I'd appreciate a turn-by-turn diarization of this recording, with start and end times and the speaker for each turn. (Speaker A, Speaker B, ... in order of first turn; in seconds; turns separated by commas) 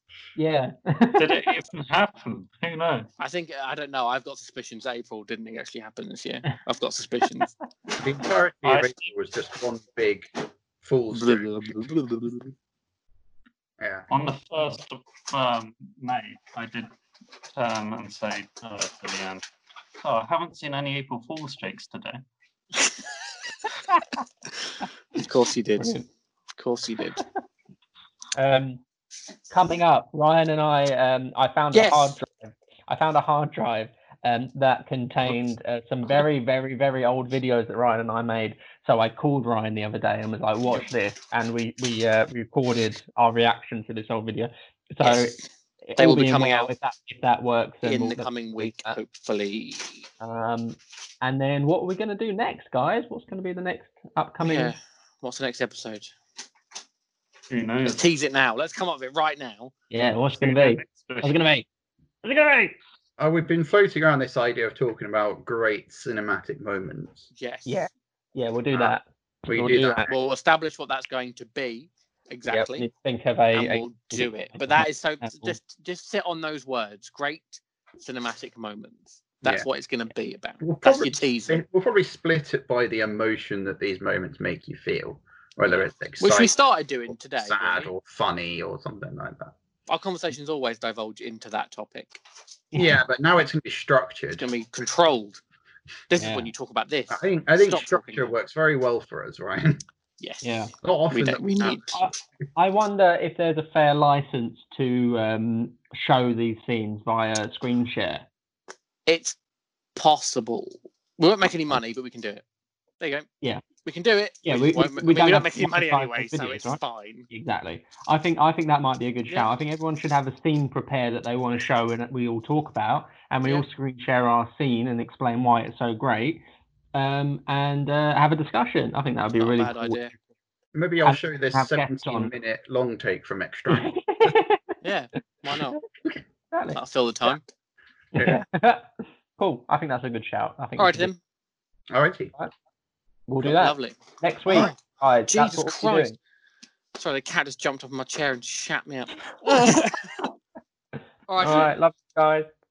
Speaker A: 0.3-1.4, Speaker B: 1.2-3.1, Speaker C: 3.2-7.5, Speaker D: 8.0-11.8, Speaker B: 8.6-8.9, Speaker C: 11.1-12.5, Speaker D: 13.8-14.1, Speaker B: 14.1-16.9, Speaker B: 17.5-19.4, Speaker B: 20.0-22.2, Speaker C: 22.8-23.1, Speaker C: 25.1-25.9, Speaker A: 25.8-26.0, Speaker C: 26.6-27.2, Speaker A: 28.3-28.8, Speaker A: 29.5-49.0, Speaker C: 31.7-32.2, Speaker C: 45.0-45.4, Speaker C: 46.0-46.7, Speaker C: 47.8-50.0, Speaker A: 50.2-54.7, Speaker C: 54.4-56.1, Speaker B: 57.5-58.0, Speaker C: 57.8-59.7, Speaker A: 59.9-61.7, Speaker B: 60.4-61.4, Speaker A: 62.2-62.8, Speaker D: 63.2-67.2, Speaker C: 67.3-67.8, Speaker A: 67.7-70.1, Speaker D: 69.5-70.1, Speaker C: 70.0-72.9, Speaker A: 72.5-75.6, Speaker C: 73.5-81.6, Speaker D: 80.6-86.5, Speaker C: 86.2-87.9, Speaker D: 87.4-89.5, Speaker C: 89.9-92.2, Speaker A: 92.7-93.0, Speaker D: 92.7-94.5, Speaker C: 94.4-95.4, Speaker C: 96.1-98.3, Speaker A: 96.2-96.5, Speaker D: 97.1-99.8, Speaker C: 100.2-102.0, Speaker A: 100.4-100.7, Speaker D: 100.8-102.0, Speaker A: 101.9-108.3, Speaker C: 109.1-109.3, Speaker C: 110.0-112.4, Speaker C: 113.0-113.3, Speaker C: 113.8-117.3, Speaker A: 114.4-126.4, Speaker A: 126.9-130.1, Speaker C: 129.4-130.1, Speaker D: 130.7-134.3, Speaker A: 131.0-132.3, Speaker A: 133.7-134.8, Speaker C: 134.8-135.8, Speaker A: 136.5-136.8, Speaker C: 136.7-137.4, Speaker A: 138.1-141.1, Speaker D: 138.1-138.4, Speaker C: 140.8-141.2, Speaker D: 141.9-142.3, Speaker A: 143.3-146.1, Speaker C: 143.4-144.8, Speaker C: 145.3-146.1, Speaker C: 146.9-150.2, Speaker C: 151.3-151.7, Speaker A: 151.4-152.5